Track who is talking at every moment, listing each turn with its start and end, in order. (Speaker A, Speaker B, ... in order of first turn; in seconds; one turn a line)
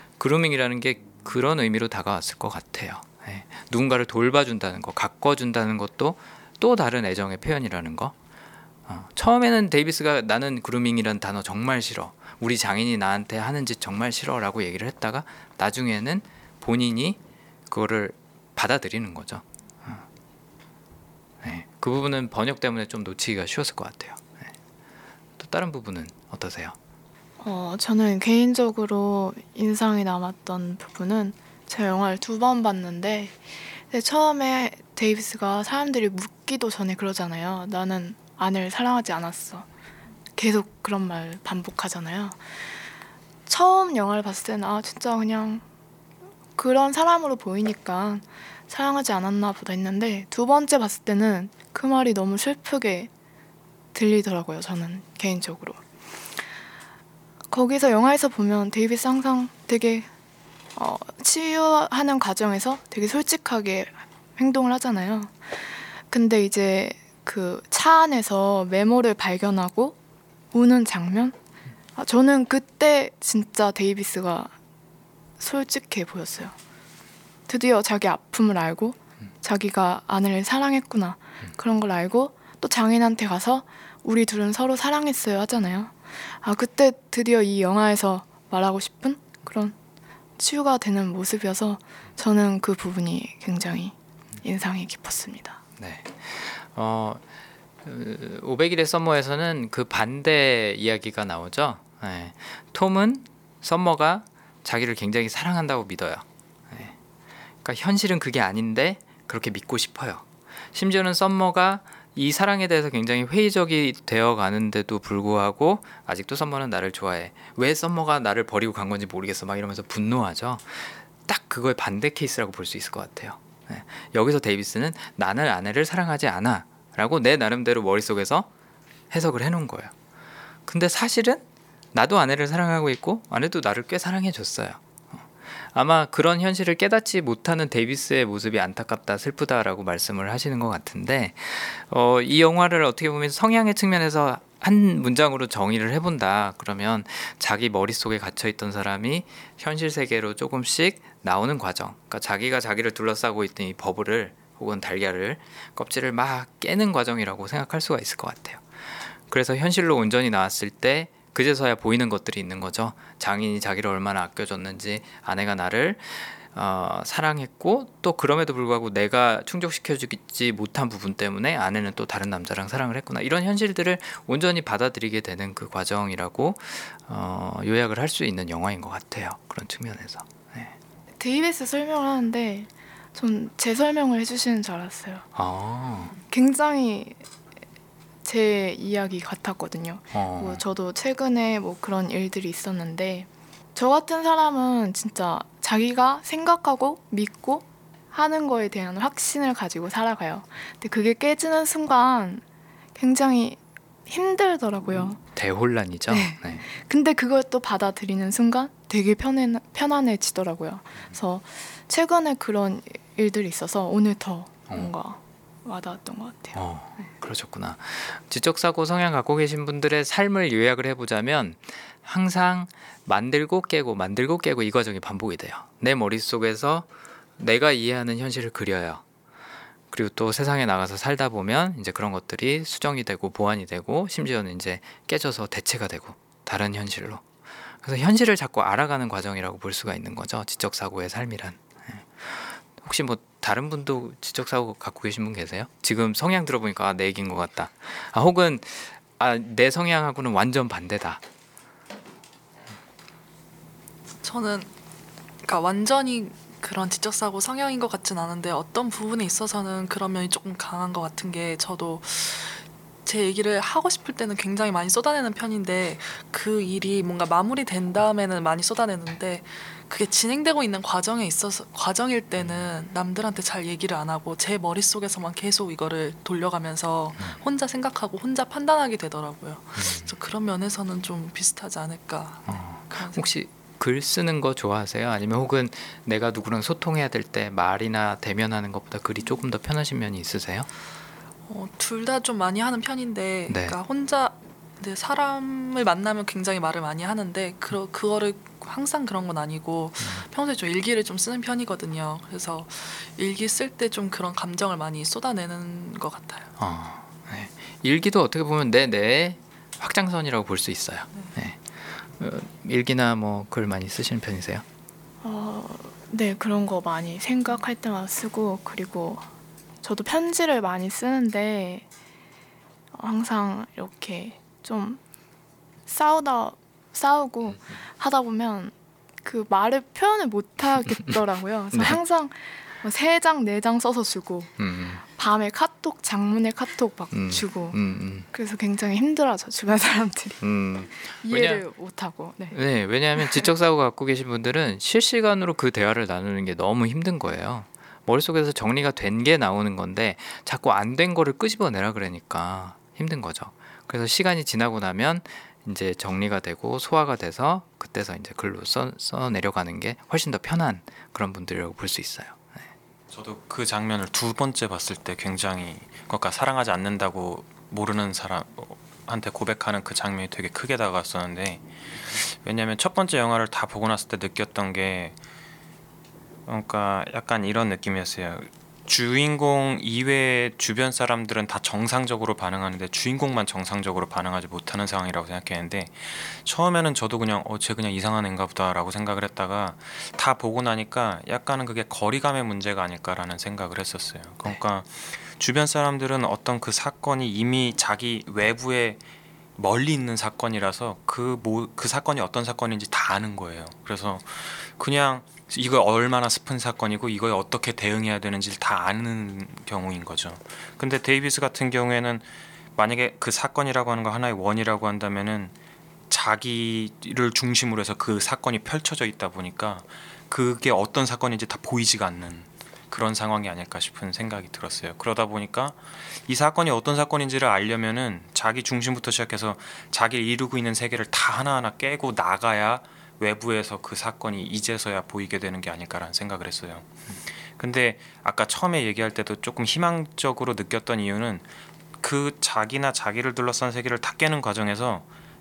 Speaker A: 0.2-8.1
Speaker A: 8.9-17.2
Speaker A: 17.7-20.1
Speaker A: 21.4-24.5
Speaker A: 25.4-26.8
Speaker B: 27.4-39.7
Speaker B: 40.4-42.4
Speaker B: 43.5-45.6
Speaker B: 46.6-53.1
Speaker B: 53.9-55.8
Speaker B: 57.5-60.1
Speaker B: 60.8-65.5
Speaker B: 66.1-70.0
Speaker B: 70.5-71.4
Speaker B: 72.0-74.5
Speaker B: 75.4-76.5
Speaker B: 77.5-89.8
Speaker B: 90.4-95.6
Speaker A: 95.8-97.2
Speaker A: 97.8-106.9
Speaker A: 107.7-128.5
Speaker A: 129.1-129.9
Speaker A: 130.7-131.4
Speaker A: 131.9-158.6
Speaker A: 159.3-180.7
Speaker B: 181.2-185.3
Speaker A: 185.3-186.2
Speaker B: 186.3-187.2
Speaker B: 188.2-202.4
Speaker A: 190.1-190.6
Speaker B: 203.0-205.2
Speaker A: 205.3-206.7
Speaker B: 206.1-216.6
Speaker A: 216.5-226.9
Speaker A: 227.4-229.0
Speaker A: 229.9-237.2
Speaker A: 237.8-251.2
Speaker C: 254.2-254.7
Speaker C: 255.4-283.3
Speaker A: 279.8-280.1
Speaker A: 282.5-290.7
Speaker C: 291.5-306.5
Speaker A: 293.5-293.8
Speaker A: 306.6-314.6
Speaker B: 315.2-319.3
Speaker B: 319.8-321.9
Speaker B: 322.9-325.0
Speaker B: 325.9-334.5
Speaker A: 331.7-332.0
Speaker A: 334.6-335.0
Speaker B: 335.1-337.8
Speaker A: 337.1-338.3
Speaker B: 338.3-340.4
Speaker A: 340.4-341.6
Speaker B: 341.2-342.6
Speaker A: 342.5-362.6
Speaker B: 343.2-343.4
Speaker D: 363.1-375.2
Speaker D: 376.5-399.0
Speaker D: 399.6-415.5
Speaker D: 416.1-436.9
Speaker D: 437.5-441.5
Speaker D: 442.0-445.1